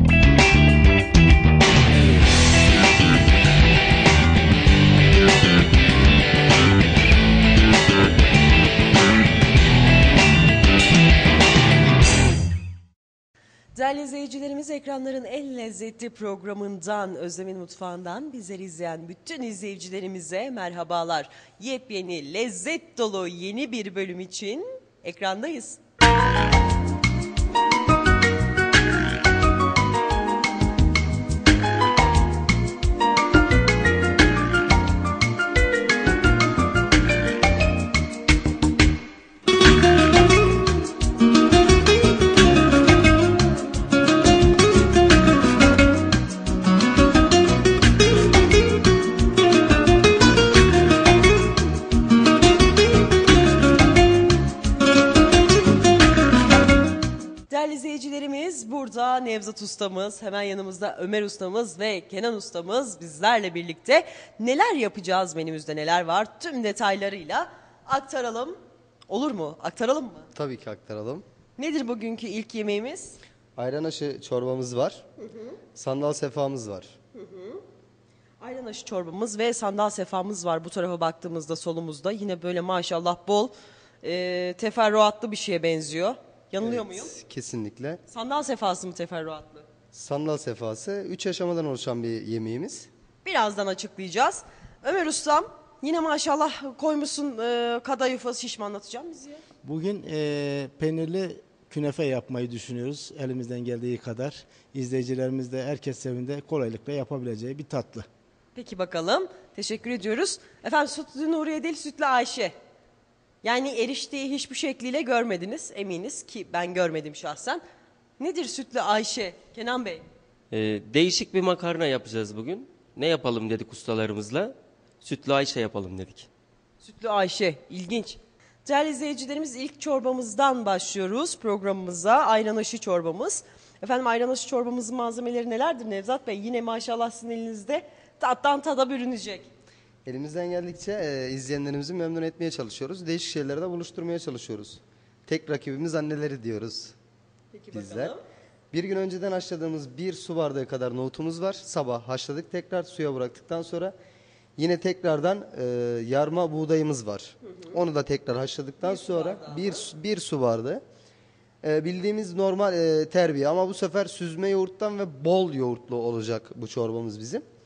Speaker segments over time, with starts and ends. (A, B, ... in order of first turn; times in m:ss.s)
0:13.7-0:25.8 A
0:57.5-1:08.6 A
1:09.1-1:10.3 A
1:10.3-1:11.2 B
1:11.6-1:13.2 A
1:13.6-1:15.0 B
1:15.7-1:16.9 B
1:17.2-1:17.6 A
1:18.4-1:27.1 A
1:26.6-1:28.0 B
1:28.1-1:29.6 A
1:29.9-1:32.9 B
1:33.2-1:39.4 A
1:39.6-1:48.1 C
1:48.5-1:52.5 A
1:53.4-1:57.6 A
1:58.2-2:00.0 A
2:00.5-2:06.3 D
2:06.8-2:19.5 A
2:20.0-2:26.9 B
2:27.5-2:28.2 A
2:27.7-2:28.1 B
2:28.7-2:33.9 B
2:34.6-2:40.8 B
2:38.8-2:39.8 A
2:41.6-2:47.4 B